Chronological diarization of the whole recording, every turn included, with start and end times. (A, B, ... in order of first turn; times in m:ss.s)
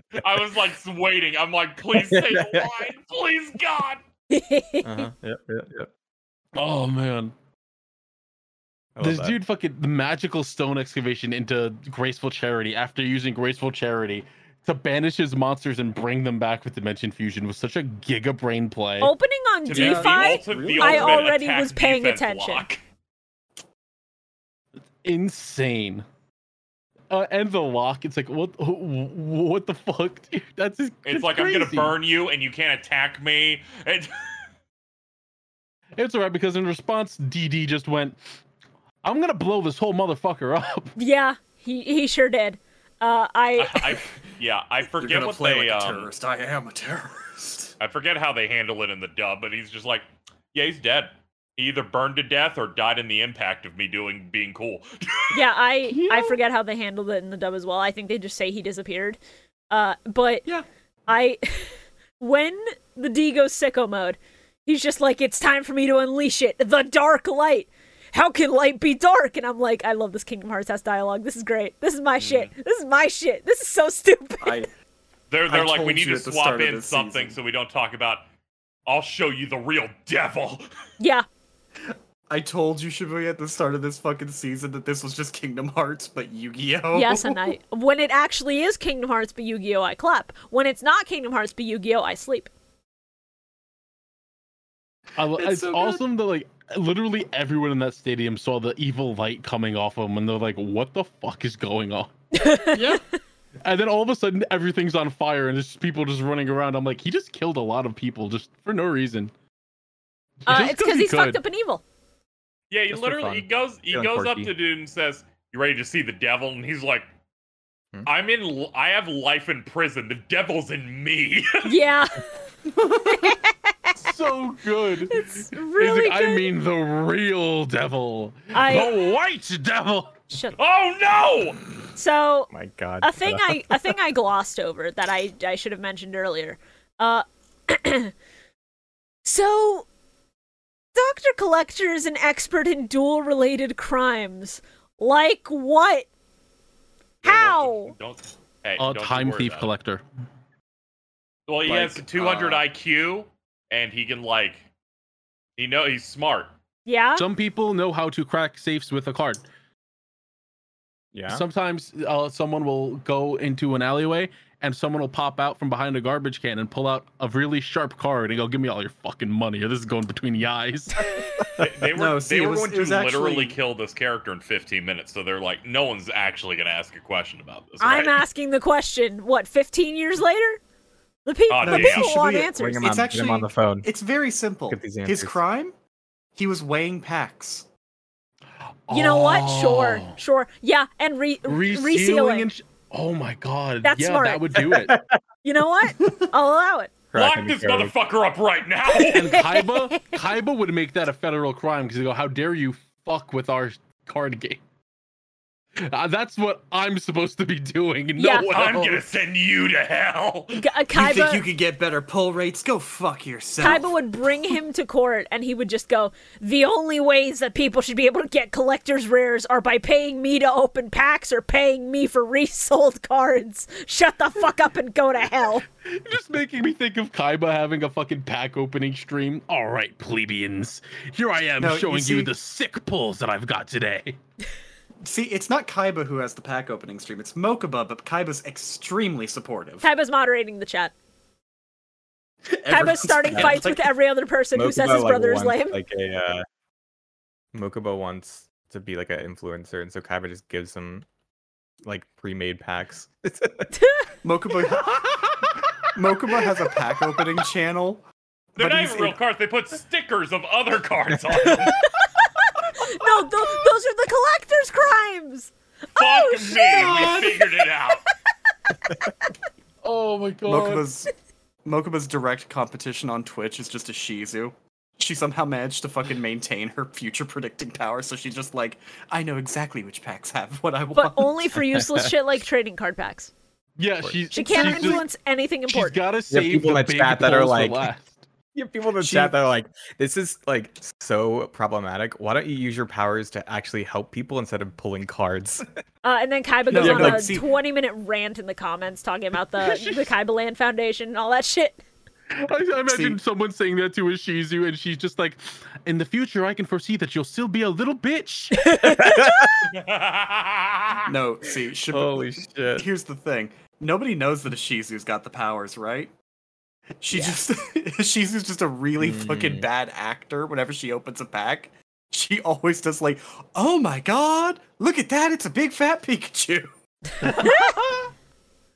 0:00.2-0:04.0 A
0:01.9-0:02.7 B
0:04.3-0:05.1 C
0:04.8-0:05.9 B
0:06.6-0:07.3 D
0:09.0-0:09.4 B
0:09.0-0:19.1 D
0:19.0-0:22.7 C
0:19.7-0:22.8 A
0:19.7-0:21.3 E
0:25.0-0:26.0 D
0:27.1-0:32.0 D
0:31.0-0:34.3 A
0:36.0-0:38.2 D
0:39.0-0:40.9 D
0:41.0-0:44.0 C
0:43.6-0:46.1 A
0:45.0-0:47.7 E
0:47.8-0:55.4 A
0:55.3-0:59.2 C
0:56.0-0:56.3 D
0:59.7-1:00.5 C
1:01.1-1:14.7 C
1:12.2-1:12.5 A
1:14.4-1:14.7 E
1:15.3-1:18.2 A
1:15.5-1:17.4 E
1:18.9-1:20.7 A
1:21.0-1:21.3 C
1:21.8-1:27.5 E
1:26.9-1:32.5 C
1:35.2-1:42.1 D
1:35.3-1:36.0 E
1:42.3-1:43.0 C
1:42.7-1:43.0 E
1:43.6-1:49.3 D
1:50.5-1:51.4 D
1:50.5-1:51.8 C
1:52.7-1:57.1 A
1:52.9-1:54.5 B
1:58.0-2:01.7 A
2:01.6-2:02.3 C
2:02.8-2:03.3 E
2:03.1-2:04.0 C
2:04.0-2:10.2 D
2:05.1-2:06.5 C
2:08.5-2:08.9 C
2:10.3-2:10.6 C
2:10.6-2:11.6 A
2:12.0-2:12.5 C
2:12.5-2:13.9 B
2:13.0-2:18.1 C
2:19.2-2:19.9 C
2:21.0-2:26.1 C
2:27.2-2:29.7 A
2:27.2-2:27.9 C
2:28.8-2:30.0 D
2:31.5-2:34.7 A
2:31.7-2:32.0 B
2:31.7-2:32.6 E
2:35.6-2:36.5 A
2:36.9-2:37.3 C
2:37.2-2:39.4 D
2:41.1-2:41.4 B
2:41.3-2:51.1 D
2:51.0-2:51.5 C
2:51.5-2:58.2 A
2:51.6-2:53.6 E
2:57.8-3:00.6 C
3:01.3-3:03.0 C
3:01.5-3:02.1 A
3:01.6-3:05.7 E
3:02.6-3:03.9 B
3:04.7-3:05.4 B
3:06.4-3:07.7 E
3:08.9-3:10.2 D
3:08.9-3:12.5 C
3:11.5-3:14.9 D
3:13.8-3:14.6 C
3:14.6-3:15.2 B
3:15.4-3:16.9 C
3:17.1-3:17.9 B
3:17.1-3:19.3 A
3:18.9-3:20.2 C
3:19.1-3:24.6 D
3:25.8-3:29.0 D
3:28.2-3:28.5 C
3:28.5-3:30.6 A
3:30.6-3:31.4 C
3:30.9-3:34.0 E
3:33.6-3:45.6 C
3:45.8-3:54.2 D
3:51.6-3:52.3 E
3:55.0-3:59.9 E
3:59.8-4:00.9 C
4:02.5-4:03.9 E
4:02.7-4:05.8 C
4:03.3-4:03.6 B
4:04.5-4:06.5 B
4:07.5-4:11.1 B
4:11.8-4:13.7 B
4:13.8-4:14.1 C
4:14.2-4:15.4 E
4:16.0-4:18.1 E
4:18.6-4:19.2 E
4:18.6-4:21.8 A
4:21.4-4:26.7 C
4:26.0-4:28.0 A
4:26.7-4:27.4 E
4:29.8-4:30.9 D
4:30.5-4:31.1 E
4:31.6-4:41.6 E
4:41.0-4:43.3 C
4:41.6-4:42.1 B
4:43.8-4:45.1 D
4:44.0-4:45.0 B
4:44.3-4:46.0 C
4:45.7-4:48.2 D
4:46.3-4:47.9 B
4:48.5-4:55.6 B
4:49.0-4:49.4 E
4:56.0-5:01.8 C
4:56.7-4:57.5 E
4:56.8-4:57.3 B
4:59.6-5:00.1 D
5:02.3-5:08.8 D
5:02.9-5:03.2 E
5:08.6-5:09.5 C
5:08.8-5:09.6 B
5:09.7-5:11.1 A
5:11.0-5:16.1 E
5:11.9-5:12.9 B
5:17.0-5:26.7 E
5:19.0-5:19.7 B
5:27.2-5:27.6 D
5:27.3-5:27.7 C
5:27.3-5:27.7 E